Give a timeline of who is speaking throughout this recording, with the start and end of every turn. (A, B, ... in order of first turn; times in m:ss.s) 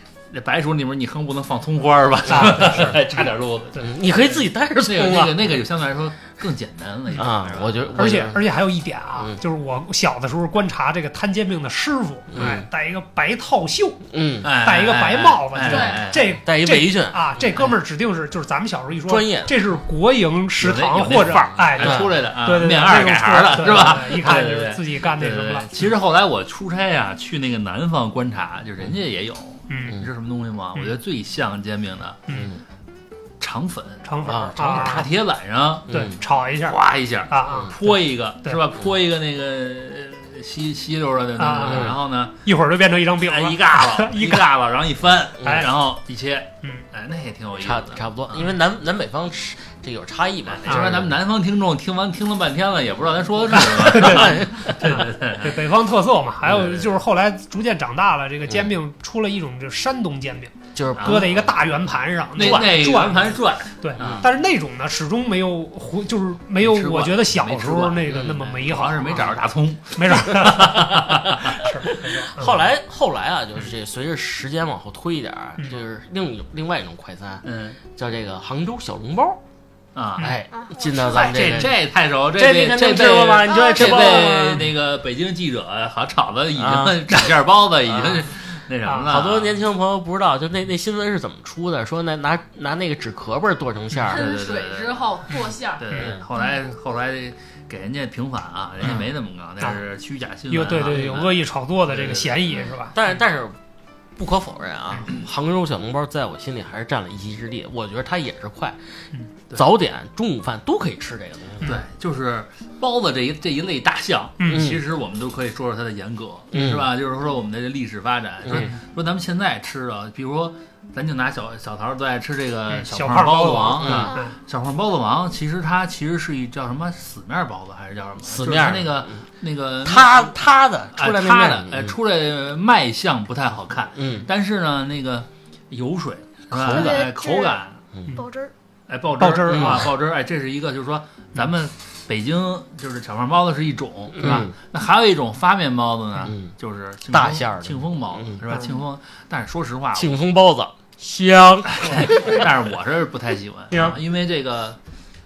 0:00.3-0:08.2 A
0:02.3-0:03.0 B
0:03.8-0:05.5 C
0:07.2-0:08.4 C
0:07.9-0:25.9 B
0:12.3-0:12.6 C
0:14.1-0:14.5 C
0:14.4-0:16.3 A
0:15.6-0:16.0 D
0:16.4-0:17.6 C
0:19.0-0:19.5 C
0:20.6-0:32.2 A
0:21.8-0:22.1 C
0:29.7-0:30.0 B
0:32.3-0:32.5 B
0:32.3-0:32.6 C
0:33.4-0:36.0 A
0:34.0-0:35.1 B
0:34.2-0:35.0 C
0:35.9-0:37.9 B
0:35.9-0:36.1 C
0:36.6-0:42.3 A
0:41.4-0:44.5 B
0:41.6-0:42.0 C
0:43.2-0:48.5 A
0:45.4-0:45.7 C
0:47.6-0:51.2 C
0:50.5-0:55.6 A
0:50.7-0:51.0 B
0:53.7-1:09.4 B
0:54.0-0:54.7 C
0:56.5-0:56.8 C
1:00.7-1:01.5 C
1:01.0-1:01.3 A
1:02.3-1:04.3 A
1:02.4-1:03.0 C
1:04.0-1:04.2 C
1:06.6-1:11.6 A
1:08.1-1:08.4 C
1:09.9-1:10.9 B
1:11.5-1:12.6 B
1:12.1-1:19.4 C
1:17.4-1:17.8 A
1:19.9-1:20.4 A
1:20.2-1:24.7 C
1:20.5-1:21.4 E
1:21.0-1:29.6 A
1:23.5-1:24.3 E
1:26.5-1:27.3 C
1:27.9-1:28.3 C
1:29.0-1:34.3 C
1:34.1-1:35.0 A
1:34.1-1:35.8 D
1:35.8-1:41.4 A
1:35.9-1:36.2 C
1:40.5-1:43.0 B
1:40.9-1:41.3 C
1:41.9-1:42.3 A
1:42.9-1:43.6 C
1:44.2-1:48.8 C
1:49.5-1:51.8 C
1:51.6-2:10.4 A
1:54.4-1:54.7 B
1:54.5-1:54.8 C
1:56.5-1:56.9 C
1:58.4-1:58.7 C
2:02.7-2:04.3 B
2:03.8-2:04.1 C
2:08.2-2:09.2 C
2:09.8-2:12.0 C
2:10.9-2:17.8 A
2:14.0-2:14.3 C
2:16.5-2:17.1 C
2:16.6-2:17.6 E
2:18.1-2:18.5 E
2:18.9-2:30.2 A
2:19.2-2:19.9 B
2:19.5-2:19.9 C
2:24.2-2:24.5 C
2:26.2-2:26.5 C
2:27.1-2:28.5 C
2:29.9-2:32.4 C
2:31.8-2:34.8 A
2:33.7-2:34.0 B